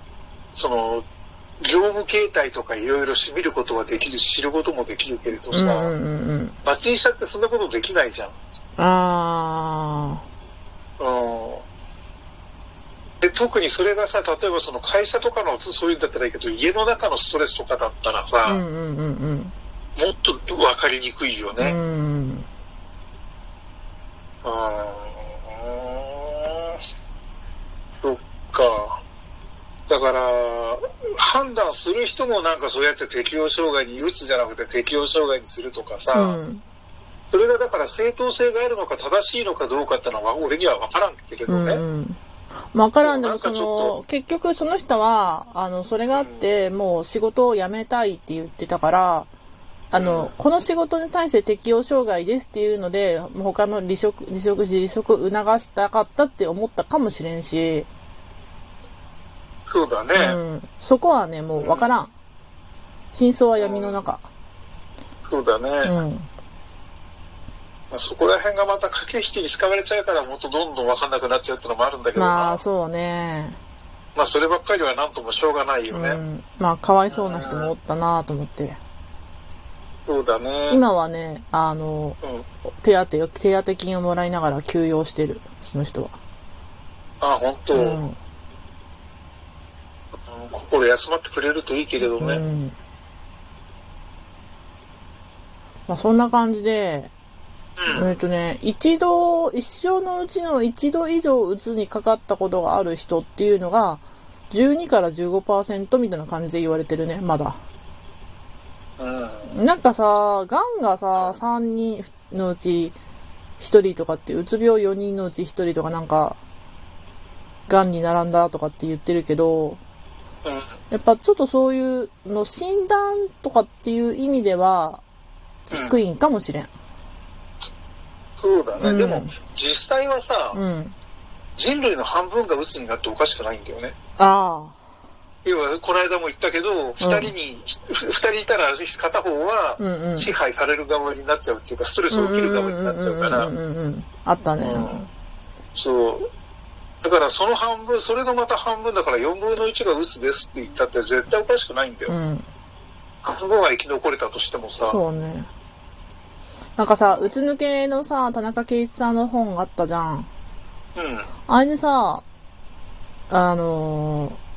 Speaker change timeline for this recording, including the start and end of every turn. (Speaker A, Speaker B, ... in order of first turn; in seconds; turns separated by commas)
Speaker A: 0.6-1.1, Speaker A: 1.6-5.9, Speaker B: 5.5-6.6, Speaker A: 6.7-8.4, Speaker B: 8.8-10.2, Speaker A: 11.0-11.7, Speaker A: 13.2-18.6, Speaker B: 18.4-19.5, Speaker A: 20.0-21.8, Speaker B: 21.6-22.5, Speaker A: 24.4-26.8, Speaker A: 28.0-29.0, Speaker A: 29.9-36.4, Speaker B: 36.1-36.6, Speaker A: 37.3-41.8, Speaker B: 41.5-42.2, Speaker B: 42.7-49.3, Speaker A: 43.0-44.0, Speaker A: 46.1-46.5, Speaker B: 49.9-57.9, Speaker A: 50.0-50.3, Speaker A: 59.7-60.4, Speaker B: 60.1-62.1, Speaker A: 61.6-61.9, Speaker B: 63.1-64.3, Speaker A: 63.6-64.0, Speaker A: 65.2-65.9, Speaker B: 65.8-66.3, Speaker A: 67.9-72.6, Speaker B: 72.2-73.6, Speaker A: 74.2-76.2, Speaker B: 75.9-78.8, Speaker A: 77.1-77.7, Speaker A: 80.1-80.8, Speaker B: 80.7-82.2, Speaker B: 82.7-86.2, Speaker A: 87.2-88.0, Speaker B: 87.7-88.2, Speaker A: 90.3-92.4, Speaker B: 92.2-92.8, Speaker B: 95.9-97.1, Speaker A: 97.8-98.2, Speaker B: 97.9-107.6, Speaker A: 109.0-109.5, Speaker B: 109.5-113.0, Speaker B: 113.6-116.4, Speaker B: 117.7-119.8, Speaker B: 120.9-125.0, Speaker B: 125.7-126.7, Speaker A: 125.7-126.0, Speaker A: 128.4-130.6, Speaker B: 128.8-129.3, Speaker B: 130.5-130.9, Speaker A: 131.6-133.9, Speaker B: 134.2-134.8, Speaker A: 135.4-143.5, Speaker B: 137.0-137.3, Speaker B: 139.8-140.3, Speaker B: 142.1-145.1, Speaker A: 144.6-145.1, Speaker A: 145.7-146.3, Speaker A: 147.0-152.1, Speaker B: 152.1-152.4, Speaker A: 153.2-155.0, Speaker B: 154.9-155.5, Speaker B: 156.8-160.3, Speaker A: 157.1-157.3, Speaker A: 161.0-161.3, Speaker B: 161.5-162.2, Speaker B: 163.3-164.4